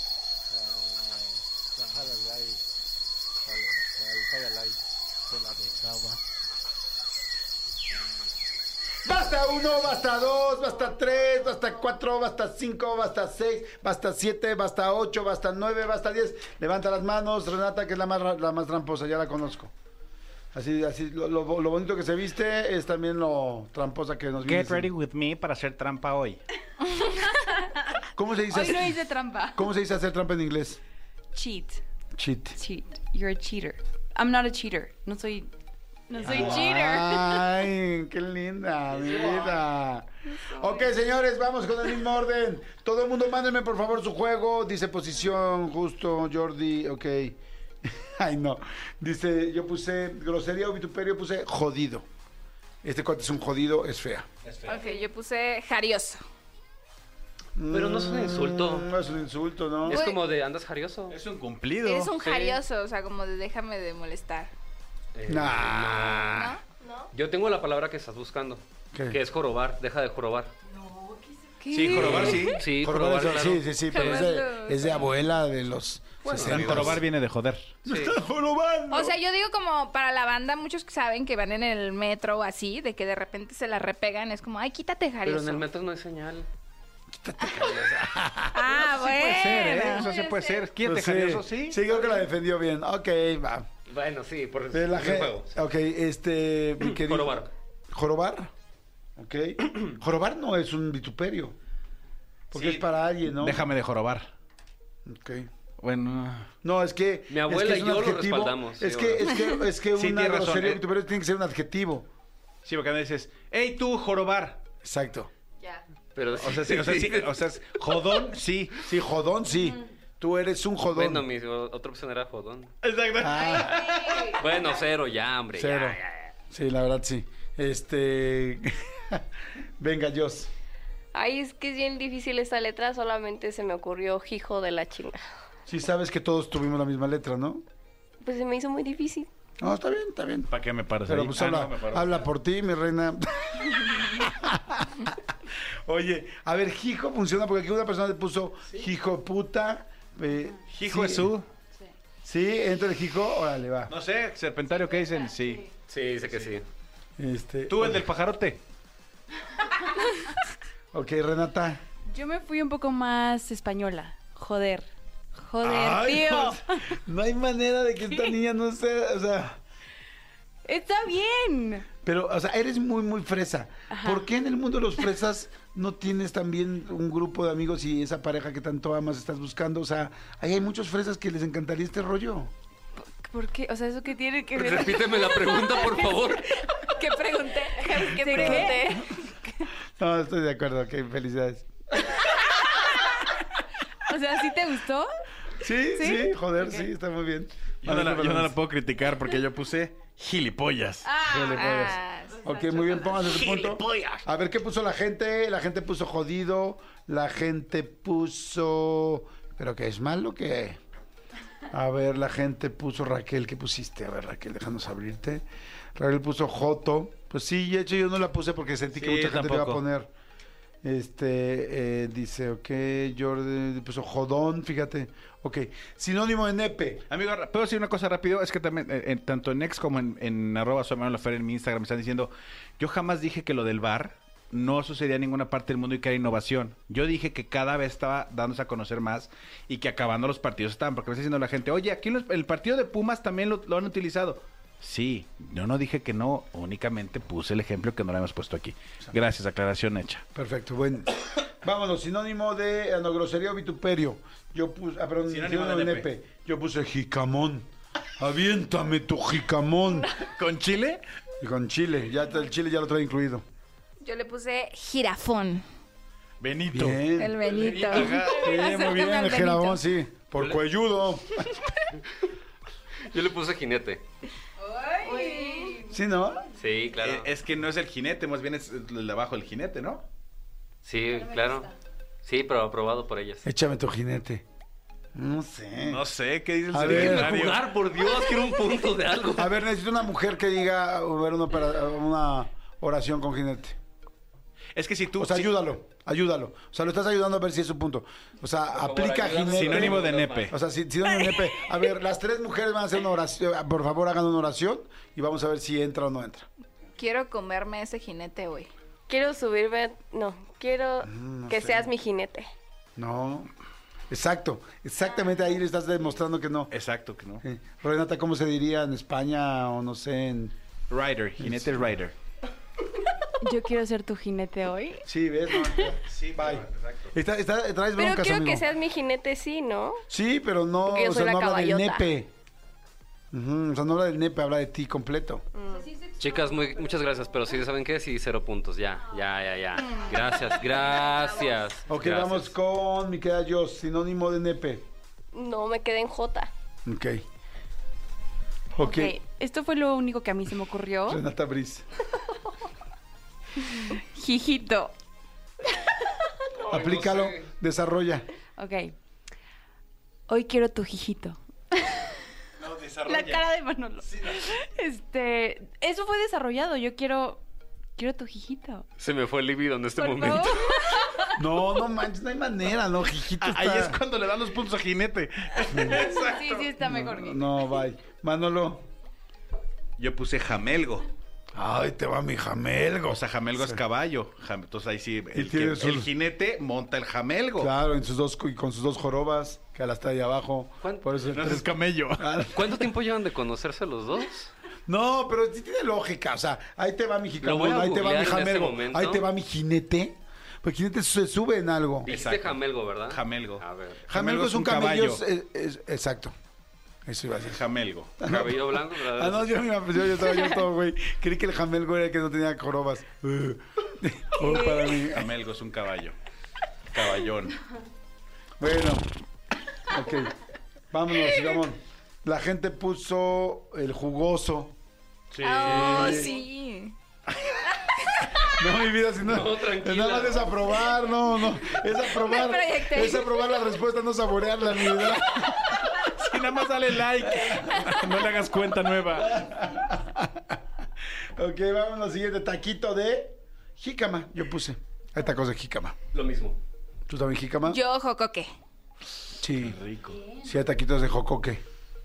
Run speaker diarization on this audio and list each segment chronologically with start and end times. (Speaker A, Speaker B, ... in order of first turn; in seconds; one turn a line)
Speaker A: 0.5-2.6
Speaker A: 3.5-4.8
Speaker A: 5.3-5.9
Speaker B: 9.1-19.7
Speaker B: 20.5-24.9
Speaker C: 24.4-26.4
Speaker B: 28.1-29.0
Speaker D: 28.5-29.7
Speaker B: 29.5-30.8
Speaker D: 31.3-31.8
Speaker B: 32.2-32.6
Speaker D: 32.6-35.5
Speaker D: 36.1-37.4
Speaker B: 36.2-52.1
Speaker E: 36.7-37.0
Speaker C: 39.0-39.5
Speaker B: 52.8-54.3
Speaker C: 54.4-54.9
Speaker E: 54.6-56.2
Speaker B: 57.6-60.0
Speaker F: 57.7-58.9
Speaker F: 59.9-61.2
Speaker E: 59.9-60.2
Speaker C: 61.1-62.1
Speaker E: 61.8-64.5
Speaker F: 62.2-62.6
Speaker F: 65.2-66.6
Speaker B: 65.3-66.4
Speaker E: 66.3-66.6
Speaker G: 66.8-67.1
Speaker F: 67.1-70.5
Speaker B: 68.9-69.2
Speaker D: 70.8-72.0
Speaker C: 71.7-72.6
Speaker E: 71.7-72.5
Speaker F: 72.0-74.3
Speaker B: 72.0-77.0
Speaker E: 73.9-75.0
Speaker F: 76.2-77.0
Speaker C: 76.3-77.8
Speaker B: 77.8-79.2
Speaker F: 77.9-78.2
Speaker E: 78.9-85.7
Speaker F: 85.2-86.5
Speaker B: 87.1-88.7
Speaker E: 88.5-90.6
Speaker C: 88.9-91.8
Speaker B: 90.8-93.7
Speaker F: 93.9-95.6
Speaker B: 94.7-97.4
Speaker F: 96.8-97.5
Speaker B: 97.9-98.5
Speaker B: 99.2-101.6
Speaker B: 102.5-103.7
Speaker C: 103.3-104.3
Speaker B: 105.1-105.5
Speaker C: 105.8-106.5
Speaker B: 106.6-112.1
Speaker F: 107.3-109.3
Speaker C: 110.0-110.8
Speaker C: 112.7-114.6
Speaker B: 114.8-115.3
Speaker F: 116.2-117.4
Speaker C: 116.4-118.8
Speaker B: 116.5-117.0
Speaker B: 118.8-121.3
Speaker F: 120.9-122.7
Speaker C: 122.8-124.3
Speaker B: 123.2-123.9
Speaker F: 124.3-126.3
Speaker B: 125.5-126.0
Speaker B: 126.5-129.2
Speaker B: 129.8-130.5
Speaker G: 131.1-135.2
Speaker B: 135.7-137.6
Speaker G: 138.2-139.3
Speaker B: 139.6-140.5
Speaker C: 140.5-142.2
Speaker B: 141.1-151.3
Speaker C: 150.7-151.5
Speaker B: 152.2-153.9
Speaker C: 153.9-155.7
Speaker F: 155.9-156.7
Speaker B: 157.2-158.1
Speaker C: 157.7-158.6
Speaker B: 160.9-161.8
Speaker D: 162.1-166.8
Speaker B: 165.6-169.6
Speaker D: 170.7-171.9
Speaker B: 172.0-182.5
Speaker D: 173.9-174.2
Speaker D: 183.2-189.7
Speaker F: 184.6-186.4
Speaker G: 187.9-188.7
Speaker B: 188.3-189.0
Speaker B: 190.0-191.7
Speaker D: 194.1-195.1
Speaker B: 195.6-198.6
Speaker D: 195.9-196.9
Speaker C: 197.8-201.1
Speaker D: 201.1-201.9
Speaker B: 201.2-210.8
Speaker E: 201.4-202.4
Speaker D: 202.4-203.1
Speaker C: 203.2-204.2
Speaker B: 211.7-215.4
Speaker B: 215.9-220.1
Speaker C: 218.9-219.8
Speaker B: 220.8-227.0
Speaker C: 227.1-250.2
Speaker B: 250.3-260.1
Speaker C: 255.3-256.1
Speaker C: 260.3-261.0
Speaker B: 261.4-263.4
Speaker E: 264.0-265.6
Speaker C: 266.4-268.5
Speaker B: 266.7-267.5
Speaker E: 267.1-269.8
Speaker F: 267.6-268.1
Speaker B: 268.3-271.5
Speaker F: 273.1-274.0
Speaker D: 274.6-275.9
Speaker G: 275.1-275.8
Speaker B: 275.9-276.4
Speaker F: 276.6-277.3
Speaker C: 277.0-280.0
Speaker F: 280.8-281.7
Speaker D: 281.2-281.7
Speaker F: 282.2-283.5
Speaker B: 283.4-284.4
Speaker B: 285.1-286.0
Speaker C: 285.9-288.5
Speaker B: 286.7-287.5
Speaker F: 286.8-289.5
Speaker B: 289.4-293.8
Speaker C: 294.8-295.6
Speaker B: 295.2-306.5
Speaker F: 298.7-300.5
Speaker C: 299.5-300.6
Speaker E: 307.0-308.7
Speaker G: 309.1-312.5
Speaker B: 311.0-311.9
Speaker B: 313.0-313.5
Speaker B: 314.1-316.7
Speaker C: 316.7-317.4
Speaker B: 317.4-320.5
Speaker C: 320.9-322.1
Speaker B: 321.4-321.9
Speaker D: 323.4-325.1
Speaker B: 325.1-328.6
Speaker C: 325.9-327.1
Speaker G: 328.0-330.0
Speaker B: 330.1-332.3
Speaker G: 330.9-332.1
Speaker B: 333.3-335.4
Speaker G: 335.5-335.9
Speaker D: 335.7-337.5
Speaker F: 336.2-342.5
Speaker D: 339.8-341.6
Speaker B: 341.9-344.9
Speaker G: 345.3-346.5
Speaker B: 346.9-347.2
Speaker B: 348.7-349.2
Speaker D: 348.8-351.2
Speaker B: 351.1-351.9
Speaker D: 353.7-354.9
Speaker F: 356.6-357.5
Speaker B: 356.7-358.3
Speaker D: 358.6-358.9
Speaker D: 360.3-362.0
Speaker C: 362.6-363.5
Speaker D: 363.0-367.4
Speaker C: 364.1-364.5
Speaker D: 368.0-368.9
Speaker F: 369.0-370.8
Speaker D: 370.0-371.3
Speaker B: 371.4-374.0
Speaker C: 373.4-376.7
Speaker B: 375.7-376.2
Speaker D: 375.9-377.5
Speaker B: 376.8-378.8
Speaker C: 380.0-381.1
Speaker B: 381.6-383.8
Speaker C: 383.1-387.7
Speaker B: 385.3-386.1
Speaker B: 387.6-392.9
Speaker F: 390.8-391.1
Speaker C: 391.3-392.4
Speaker F: 392.5-394.5
Speaker B: 394.9-402.1
Speaker F: 397.4-399.2
Speaker F: 402.1-404.0
Speaker C: 402.1-405.2
Speaker B: 404.1-406.4
Speaker B: 407.1-407.6
Speaker C: 407.4-408.2
Speaker B: 408.2-415.3
Speaker F: 408.2-409.6
Speaker C: 415.1-416.1
Speaker C: 416.9-417.6
Speaker B: 418.6-419.1
Speaker B: 419.9-420.4
Speaker B: 420.9-424.8
Speaker C: 425.3-426.3
Speaker E: 425.4-426.9
Speaker B: 425.6-426.4
Speaker B: 428.5-435.8
Speaker F: 429.2-430.8
Speaker E: 432.1-433.4
Speaker C: 436.1-439.5
Speaker B: 437.3-437.9
Speaker B: 439.1-440.6
Speaker B: 441.4-446.0
Speaker F: 446.1-446.6
Speaker B: 447.1-447.8
Speaker E: 447.7-448.5
Speaker B: 449.4-449.8
Speaker C: 449.6-450.2
Speaker D: 450.1-450.5
Speaker B: 450.4-451.6